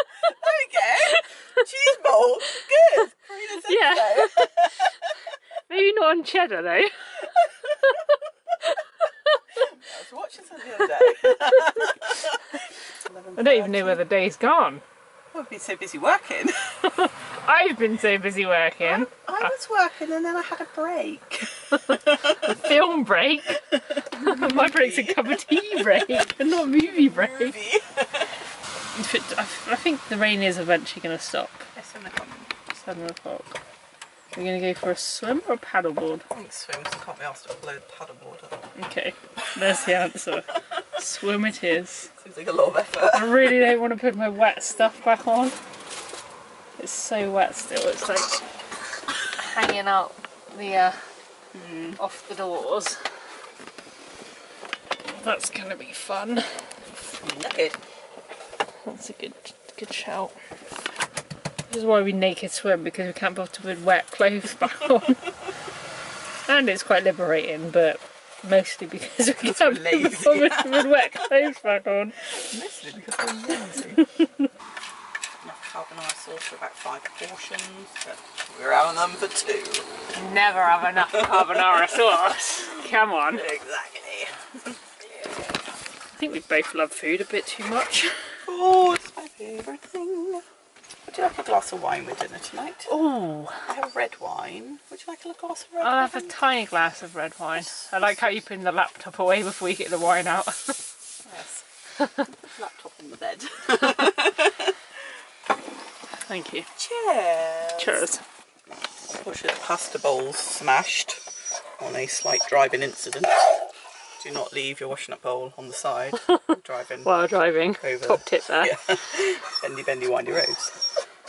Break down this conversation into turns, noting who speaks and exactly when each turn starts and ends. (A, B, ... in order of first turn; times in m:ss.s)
0:00.2-0:05.1 A
0:03.6-0:04.9 B
0:05.7-0:07.0 B
0:08.6-0:09.4 B
0:09.6-0:14.0 A
0:11.1-0:11.9 B
0:13.4-0:14.8 B
0:15.3-0:16.8 A
0:16.8-0:19.5 B
0:18.8-0:22.5 A
0:21.8-0:27.6 B
0:24.2-0:26.2 A
0:26.8-0:28.4 A
0:28.9-0:31.7 B
0:31.8-0:32.5 A
0:32.7-0:33.6 B
0:34.3-0:36.2 B
0:36.3-0:38.7 A
0:38.8-0:42.1 B
0:39.4-0:39.9 A
0:42.2-0:43.6 A
0:43.1-0:45.6 B
0:46.8-0:48.4 B
0:49.2-0:51.0 B
0:51.5-0:52.0 A
0:52.0-0:53.0 B
0:55.1-0:56.8 B
0:57.2-0:57.8 A
0:58.8-1:00.4 B
1:01.7-1:05.3 B
1:06.5-1:12.2 B
1:09.4-1:11.3 A
1:12.3-1:14.0 A
1:15.4-1:19.9 A
1:20.1-1:23.4 B
1:21.2-1:22.0 A
1:23.3-1:25.6 A
1:26.2-1:28.2 B
1:28.4-1:30.4 A
1:31.1-1:32.9 A
1:32.9-1:33.7 B
1:33.6-1:36.3 A
1:35.8-1:40.8 B
1:37.7-1:38.0 A
1:41.2-1:41.7 A
1:42.3-1:44.8 A
1:46.3-1:46.7 B
1:46.8-1:48.1 A
1:47.8-1:48.2 B
1:49.2-1:51.2 A
1:51.8-1:53.5 A
1:54.2-1:57.1 A
1:57.0-1:58.9 B
1:57.8-2:00.8 A